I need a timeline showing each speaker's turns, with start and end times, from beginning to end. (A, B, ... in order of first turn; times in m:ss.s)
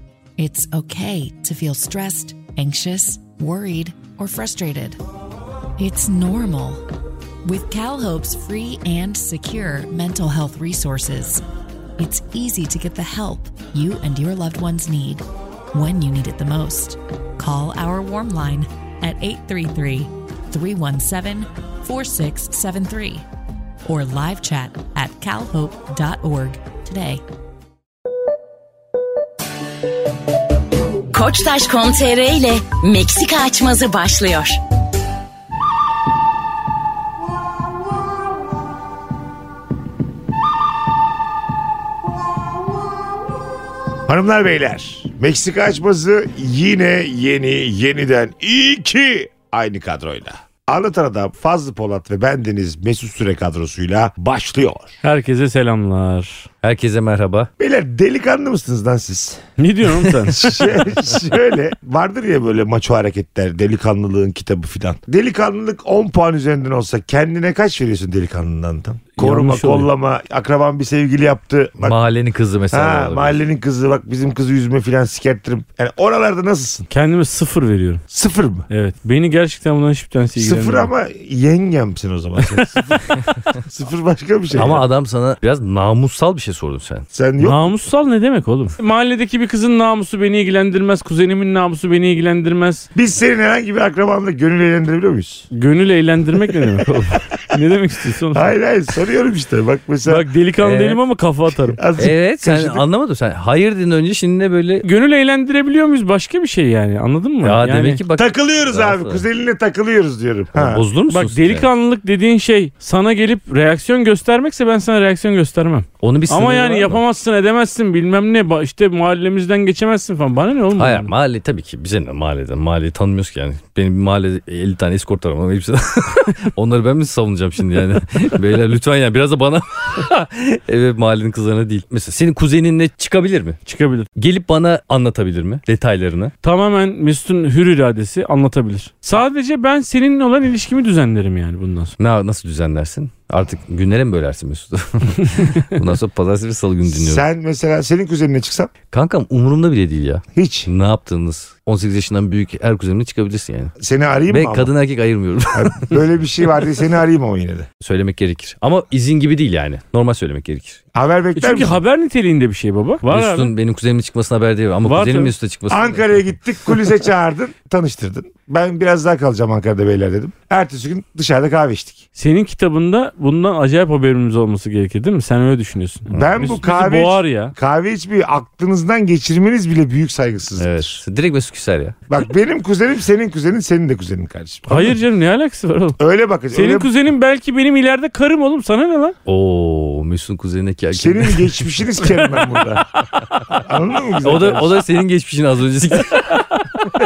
0:00.4-0:05.0 A
0:05.8-0:06.8 A
0:07.4-0:11.4 A
0:12.0-0:23.3 A
0:23.8-0:27.2 A
0:31.1-0:34.6 B
0:44.1-0:55.0 C
0:55.0-0:56.5 D
0:56.6-0:57.5 E
0:57.6-0:59.4 C
0:59.6-1:00.6 D
1:00.3-1:12.0 C
1:09.2-1:09.9 D
1:11.8-1:13.4 E
1:12.7-1:16.9 C
1:16.9-1:18.0 D
1:18.1-1:18.7 C
1:18.7-1:20.9 D
1:20.4-1:23.0 C
1:22.4-1:23.2 D
1:23.6-1:24.9 C
1:24.5-1:27.1 E
1:27.1-1:27.7 C
1:27.4-1:32.9 D
1:33.0-1:35.5 C
1:35.5-1:38.6 D
1:38.3-1:40.2 C
1:40.1-1:41.8 D
1:40.6-1:41.0 E
1:41.8-1:42.8 C
1:42.0-1:44.8 E
1:44.8-1:48.0 D
1:47.4-1:49.3 E
1:48.2-1:50.8 C
1:50.5-1:51.7 E
1:51.1-2:01.1 D
1:56.0-1:57.0 E
2:00.8-2:13.6 E
2:13.7-2:14.1 D
2:14.2-2:16.3 E
2:16.4-2:21.9 D
2:22.0-2:27.2 E
2:26.9-2:28.7 C
2:28.9-2:33.7 E
2:30.4-2:30.7 C
2:33.8-2:34.7 C
2:34.3-2:36.0 E
2:35.5-2:37.7 C
2:37.8-2:40.8 E
2:41.0-2:41.8 C
2:41.4-2:43.5 D
2:43.1-2:46.3 E
2:44.9-2:45.3 D
2:45.7-2:52.0 C
2:52.2-2:57.5 D
2:56.1-3:01.0 C
3:00.6-3:02.0 E
3:02.1-3:05.0 C
3:04.7-3:06.0 D
3:06.0-3:06.9 C
3:06.5-3:09.2 D
3:09.3-3:11.6 E
3:10.9-3:12.9 C
3:12.1-3:12.5 D
3:13.5-3:14.8 C
3:14.2-3:16.3 E